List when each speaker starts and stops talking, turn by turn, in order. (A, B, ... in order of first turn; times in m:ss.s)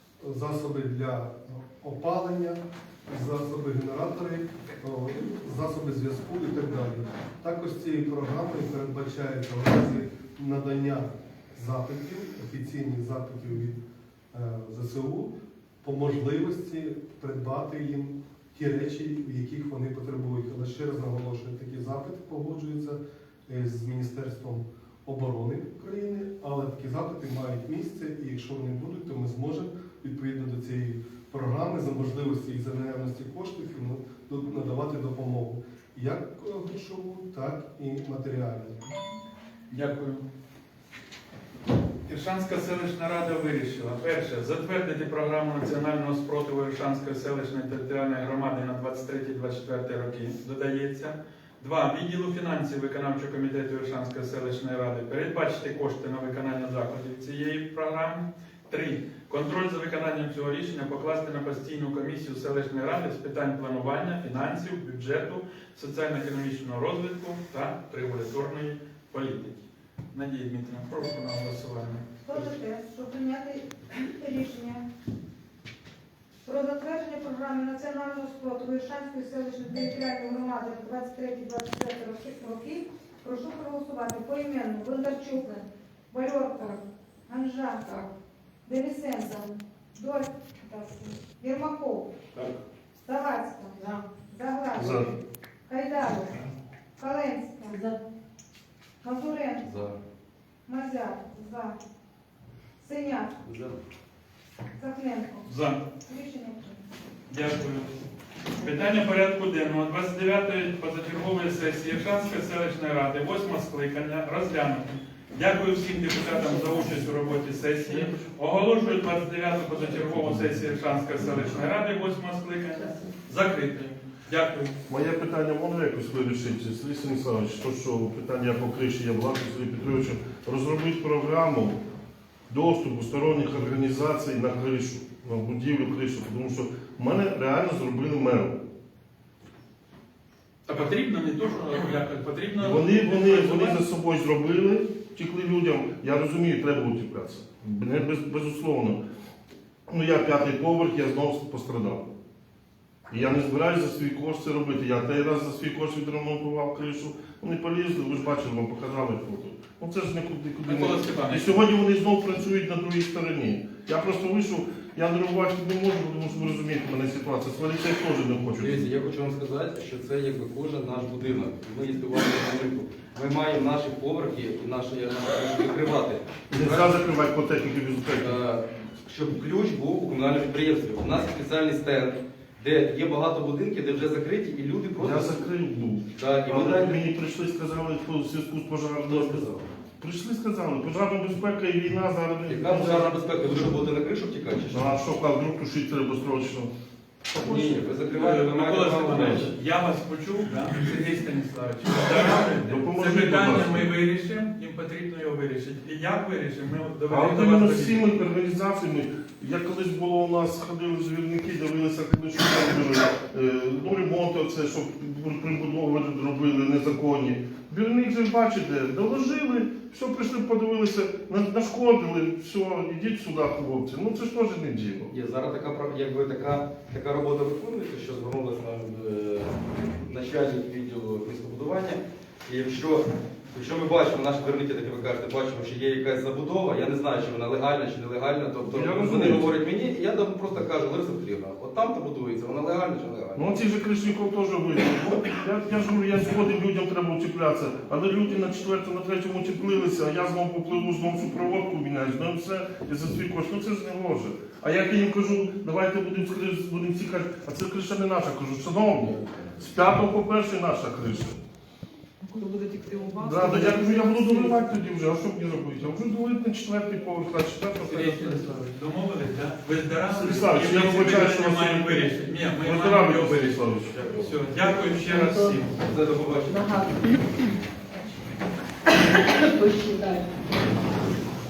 0:00.2-0:13.8 A
0:14.3-0:38.8 A
0:39.7-0:40.2 B
0:42.0-1:12.5 B
1:12.2-1:14.8 C
1:16.4-1:25.5 C
1:26.1-1:27.8 C
1:28.6-1:29.4 C
1:29.9-1:32.1 C
1:33.0-1:35.2 C
1:34.8-1:35.1 D
1:35.7-1:36.4 C
1:37.0-1:37.8 C
1:37.6-1:38.0 E
1:39.0-1:39.7 C
1:39.6-1:39.9 F
1:40.6-1:41.8 C
1:42.8-1:43.3 C
1:43.4-1:43.8 F
1:44.8-1:45.5 C
1:45.5-1:45.8 B
1:46.0-1:46.8 C
1:47.3-1:48.0 B
1:48.5-2:04.8 B
2:01.3-2:01.6 D
2:04.9-2:11.8 D
2:12.5-2:18.6 D
2:20.6-2:23.8 B
2:22.6-2:29.0 D
2:29.9-2:32.1 D
2:33.1-2:48.8 D
2:40.6-2:41.5 B
2:48.5-2:57.0 F
2:56.5-2:58.4 D
2:58.2-3:05.5 F
3:05.0-3:09.5 D
3:06.1-3:07.1 F
3:09.0-3:09.7 F
3:10.0-3:13.1 D
3:12.4-3:15.0 F
3:14.7-3:16.7 D
3:17.3-3:19.6 F
3:17.3-3:17.8 D
3:18.1-3:28.1 B
3:22.0-3:23.9 D
3:27.1-3:45.1 D
3:45.1-4:03.5 F
3:58.6-3:59.5 D
4:03.4-4:21.4 D
4:18.9-4:19.9 F
4:22.2-4:24.5 E
4:23.2-4:28.4 D
4:27.8-4:35.8 B
4:30.1-4:33.9 D
4:33.9-4:34.5 F
4:34.6-4:35.6 E
4:35.8-4:37.1 F
4:36.5-4:37.4 E
4:39.0-4:40.3 E